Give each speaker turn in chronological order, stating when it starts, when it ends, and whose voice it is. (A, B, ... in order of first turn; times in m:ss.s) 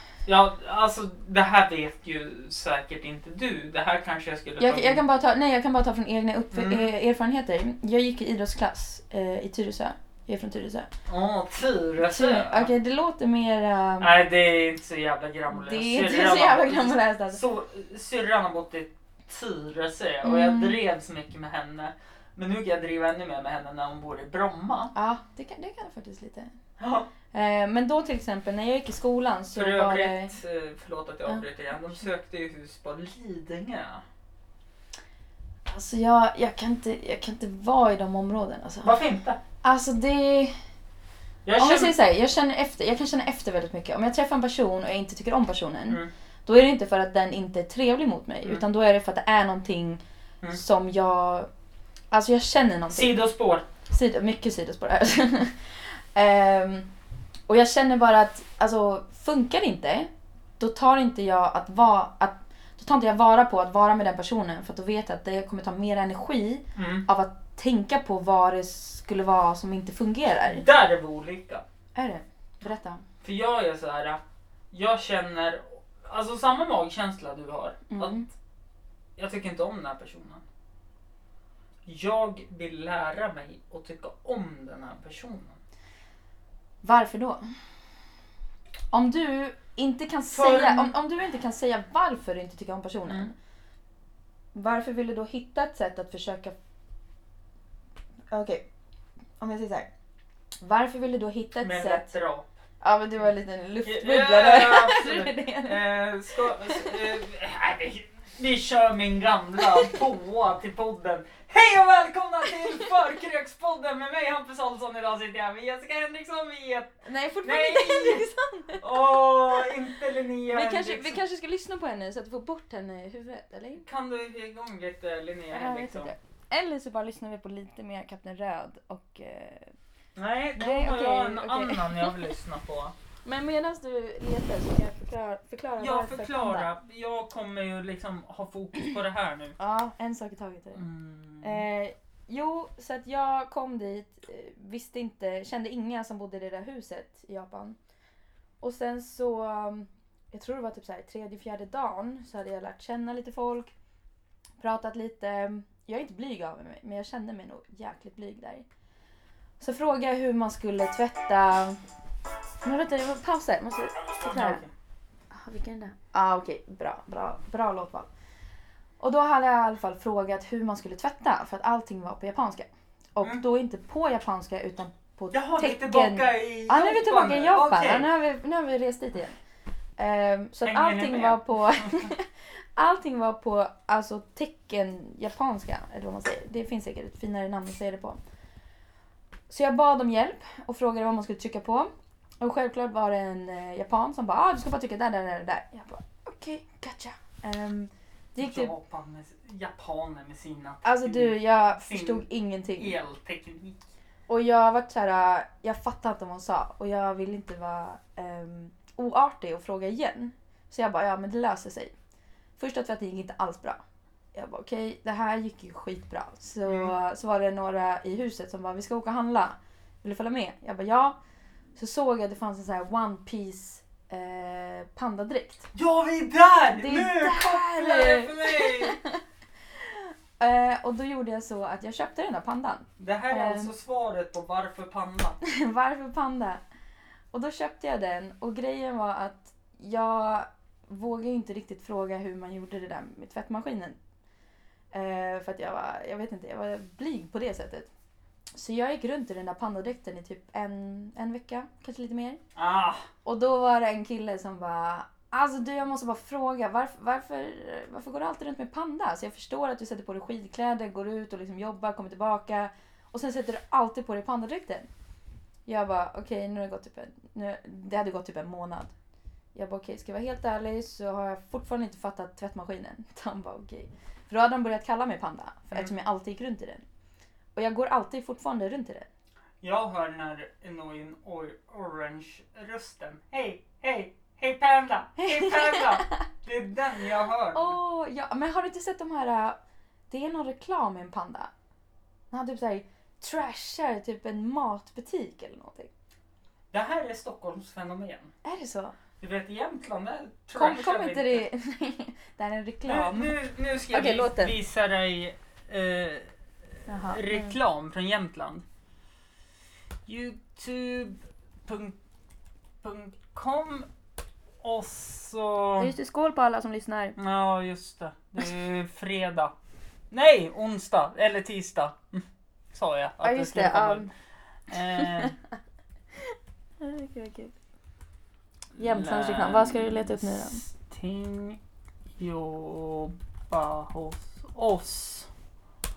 0:00.2-0:05.0 A
0:04.6-0:10.9 B
0:06.5-0:06.9 A
0:11.1-0:12.7 A
0:12.0-0:14.1 B
0:14.0-0:24.9 A
0:15.5-0:17.4 B
0:20.2-0:20.8 B
0:24.9-0:26.5 B
0:26.8-0:27.1 A
0:27.3-0:30.4 B
0:29.5-0:34.0 A
0:35.6-0:39.0 B
0:38.8-0:39.4 A
0:39.6-0:40.6 B
0:41.4-0:41.9 A
0:41.6-0:51.5 B
0:52.1-0:53.1 B
0:52.9-0:53.6 A
0:53.9-0:56.9 B
0:57.5-1:10.6 B
1:06.8-1:07.0 A
1:10.4-1:11.6 A
1:11.9-1:13.0 B
1:13.2-1:18.3 A
1:17.9-1:18.3 B
1:19.2-1:20.4 A
1:21.8-1:25.6 A
1:26.8-1:27.4 B
1:28.9-1:33.3 B
1:30.3-1:31.0 A
1:34.5-1:36.5 B
1:38.3-1:38.7 B
1:39.4-1:39.9 B
1:40.6-1:42.1 B
1:41.6-1:42.5 A
1:42.8-1:45.8 B
1:43.8-1:58.3 A
1:46.6-1:46.9 B
1:49.7-1:50.0 B
1:57.0-1:59.7 B
1:58.8-2:01.2 A
2:00.5-2:03.9 B
2:03.8-2:06.1 A
2:05.5-2:09.7 B
2:10.2-2:12.9 A
2:10.6-2:12.2 B
2:13.2-2:16.7 B
2:15.8-2:19.6 A
2:19.6-2:20.8 B
2:20.7-2:21.6 A
2:21.4-2:27.8 B
2:28.6-2:33.7 B
2:34.6-2:38.6 B
2:39.6-2:41.8 B
2:42.6-2:44.6 B
2:44.2-2:44.7 A
2:45.3-2:48.1 B
2:49.0-2:59.4 B
2:55.3-2:58.1 A
3:00.0-3:08.2 B
3:00.6-3:02.1 A
3:09.5-3:11.9 B
3:12.4-3:18.7 B
3:18.4-3:22.2 A
3:20.8-3:23.0 B
3:22.8-3:23.8 A
3:24.3-3:31.9 B
3:32.6-3:33.8 B
3:34.3-3:41.2 B
3:36.6-3:36.9 A
3:41.8-3:45.7 B
3:45.7-3:49.0 A
3:46.8-3:49.2 B
3:49.7-3:53.7 B
3:53.0-3:55.4 A
3:55.4-3:56.6 B
3:57.3-4:04.0 B
4:04.9-4:07.9 B
4:08.5-4:12.4 B
4:12.6-4:13.0 A
4:13.2-4:24.9 B
4:25.6-4:28.9 B
4:29.5-4:36.8 B
4:37.5-4:39.1 B
4:39.6-4:47.8 A
4:45.2-4:46.1 B
4:47.5-4:49.6 B
4:50.1-4:51.5 B
4:52.3-4:55.9 B
4:56.7-4:58.3 A
4:58.4-4:58.9 B
4:59.2-5:01.5 A
5:00.5-5:03.4 B
5:02.8-5:06.3 A
5:03.9-5:04.6 B
5:06.9-5:07.6 B
5:06.9-5:08.6 A
5:10.0-5:12.0 A
5:12.8-5:13.9 A
5:14.6-5:15.9 A
5:15.8-5:17.2 B
5:17.2-5:19.5 A
5:20.1-5:24.1 A
5:23.2-5:24.1 B
5:24.7-5:25.4 A
5:24.8-5:25.3 B
5:26.3-5:27.6 B
5:28.7-5:31.6 A
5:28.8-5:30.6 B
5:32.2-5:35.3 A